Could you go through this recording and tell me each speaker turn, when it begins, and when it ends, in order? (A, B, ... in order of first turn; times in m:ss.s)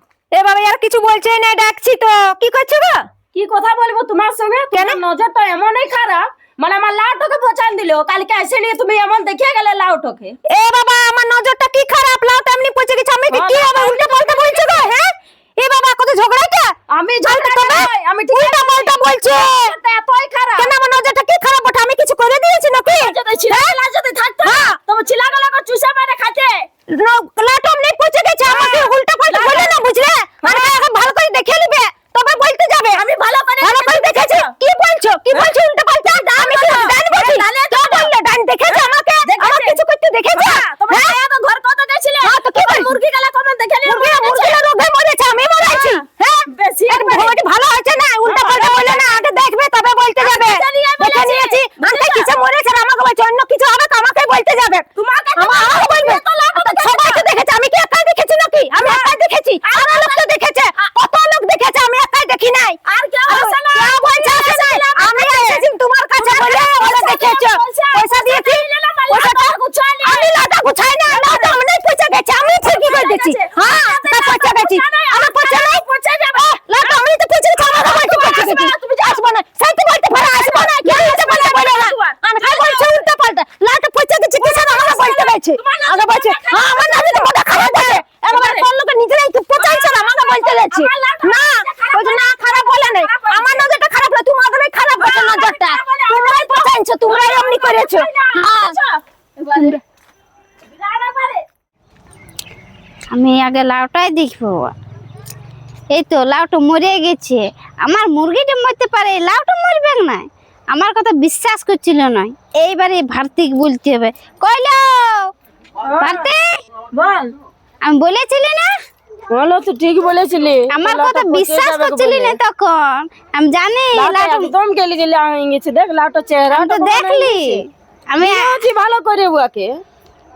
0:00.3-0:03.0 A
0:03.3-0:10.4 B
0:04.7-0:05.0 A
0:10.5-0:19.8 A
0:13.3-0:14.9 B
0:16.9-0:20.7 B
0:20.6-0:23.7 A
0:22.9-0:26.7 B
0:24.4-0:24.8 A
0:26.9-0:33.0 A
0:28.4-0:29.8 B
0:30.4-0:30.8 B
0:32.9-0:34.5 B
0:33.6-0:41.2 A
0:35.3-0:38.1 B
0:38.7-0:39.8 B
0:40.3-0:44.6 B
0:42.2-0:43.0 A
0:43.8-0:54.8 A
0:45.6-0:47.4 B
0:48.2-0:49.2 B
0:50.2-0:52.3 B
0:55.0-0:57.2 B
0:55.4-1:15.8 A
0:58.8-0:59.1 B
0:59.6-1:00.3 B
1:02.9-1:05.7 B
1:06.2-1:10.4 B
1:11.1-1:11.6 B
1:12.6-1:17.0 B
1:16.4-1:38.8 A
1:17.6-1:19.2 B
1:20.1-1:22.9 B
1:24.4-1:28.7 B
1:29.6-1:33.8 B
1:34.9-1:39.8 B
1:39.5-1:39.8 A
1:40.7-1:41.4 B
1:43.1-1:44.7 C
1:45.9-1:55.3 C
1:55.8-1:56.3 B
1:56.0-1:56.5 C
1:56.9-1:57.3 B
1:57.8-1:58.7 C
1:59.3-2:02.4 B
2:00.7-2:04.5 C
2:03.9-2:07.6 B
2:06.5-2:08.6 C
2:08.2-2:09.7 B